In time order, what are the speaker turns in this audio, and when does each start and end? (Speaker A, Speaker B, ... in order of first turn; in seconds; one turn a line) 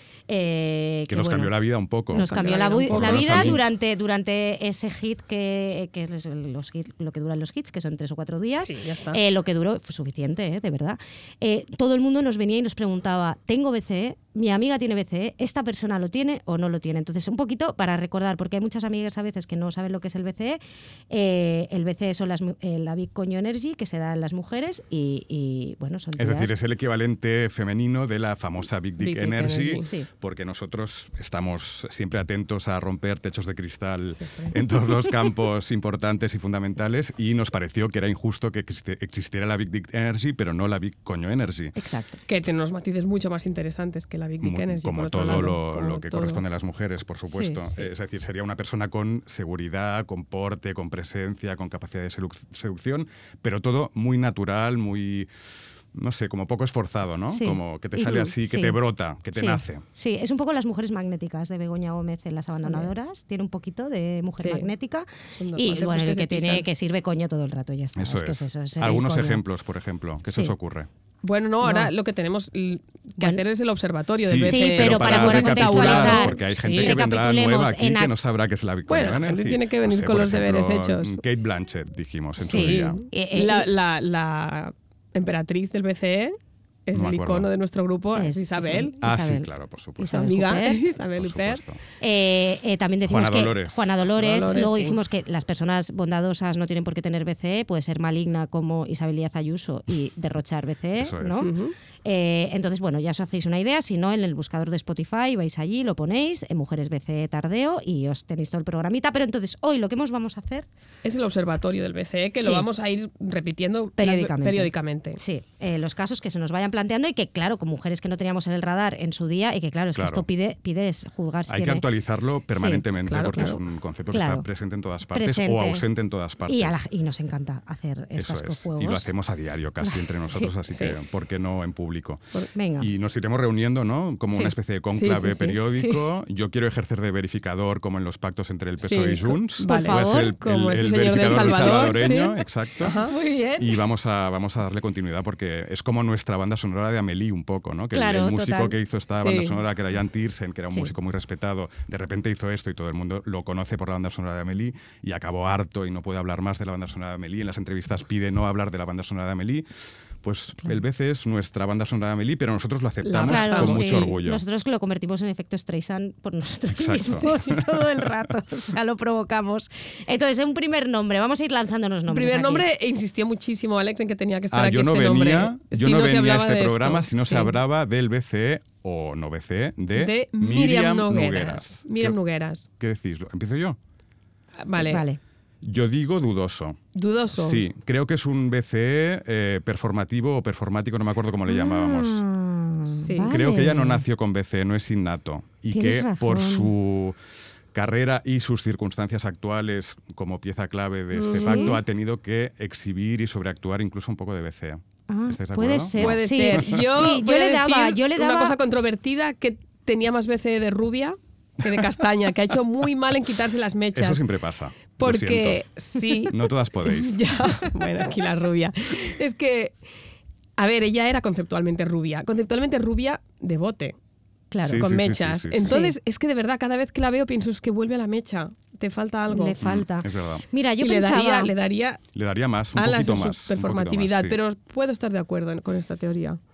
Speaker A: 0.3-1.5
Speaker B: 1.1-3.6
Speaker A: 2.1-26.5
Speaker C: 2.1-3.6
Speaker C: 8.6-9.2
Speaker B: 26.2-41.8
Speaker C: 29.0-29.9
Speaker C: 34.2-34.5
Speaker A: 41.8-42.2
Speaker C: 42.3-46.4
Speaker B: 44.4-55.3
Speaker A: 45.2-45.5
Speaker A: 47.3-47.6
Speaker B: 55.9-59.8
Speaker A: 57.3-57.6
Speaker A: 58.3-58.8
Speaker A: 59.3-69.4
Speaker C: 64.4-64.7
Speaker C: 65.4-66.7
Speaker B: 68.0-70.9
Speaker A: 70.3-70.5
Speaker C: 71.2-77.0
Speaker A: 71.6-71.9
Speaker B: 74.2-83.0
Speaker A: 74.4-78.1
Speaker C: 78.9-81.2
Speaker A: 82.4-83.7
Speaker C: 82.5-89.0
Speaker B: 86.9-87.5
Speaker A: 88.1-90.8
Speaker B: 89.0-90.2
Speaker C: 90.1-91.6
Speaker B: 91.1-91.8
Speaker A: 92.0-101.5
Speaker B: 93.0-93.9
Speaker C: 94.2-95.0
Speaker B: 101.0-101.5
Speaker C: 101.4-101.7
Speaker A: 102.0-110.7
Speaker C: 111.0-115.2
Speaker A: 112.4-112.7
Speaker A: 114.0-121.8
Speaker B: 119.9-120.2
Speaker B: 121.5-126.8
Speaker A: 122.5-123.6
Speaker C: 123.1-123.6
Speaker A: 124.1-124.5
Speaker A: 125.1-125.8
Speaker A: 126.5-129.1
Speaker B: 128.2-132.2
Speaker A: 129.8-130.5
Speaker C: 130.7-130.9
Speaker A: 132.5-132.9
Speaker B: 132.8-143.0
Speaker C: 134.4-135.6
Speaker A: 135.7-136.0
Speaker C: 138.8-142.2
Speaker A: 139.6-140.3
Speaker A: 141.3-142.4
Speaker C: 142.8-143.1
Speaker A: 143.0-143.8
Speaker B: 143.6-159.7
Speaker A: 147.9-148.7
Speaker C: 149.2-149.6
Speaker B: 160.2-164.4
Speaker C: 163.0-164.1
Speaker A: 163.2-172.7
Speaker B: 166.8-168.2
Speaker C: 172.1-177.6
Speaker B: 174.5-182.2
Speaker C: 179.9-182.7
Speaker B: 182.8-183.8
Speaker C: 184.6-185.0
Speaker A: 184.8-185.2
Speaker B: 185.6-192.2
Speaker C: 186.9-187.6
Speaker A: 191.5-194.0
Speaker C: 192.9-193.3
Speaker B: 193.3-197.2
Speaker A: 195.7-196.7
Speaker B: 197.7-207.1
Speaker C: 201.1-201.8
Speaker A: 201.3-201.8
Speaker A: 205.1-208.6
Speaker C: 206.0-214.2
Speaker B: 213.9-215.6
Speaker C: 215.0-219.7
Speaker B: 216.3-217.2
Speaker C: 220.6-223.9
Speaker A: 224.5-224.9
Speaker B: 224.6-225.8
Speaker C: 224.8-229.6
Speaker A: 225.6-225.9
Speaker A: 229.3-231.5
Speaker B: 229.6-230.4
Speaker C: 230.8-232.0
Speaker B: 232.1-234.4
Speaker C: 232.7-236.4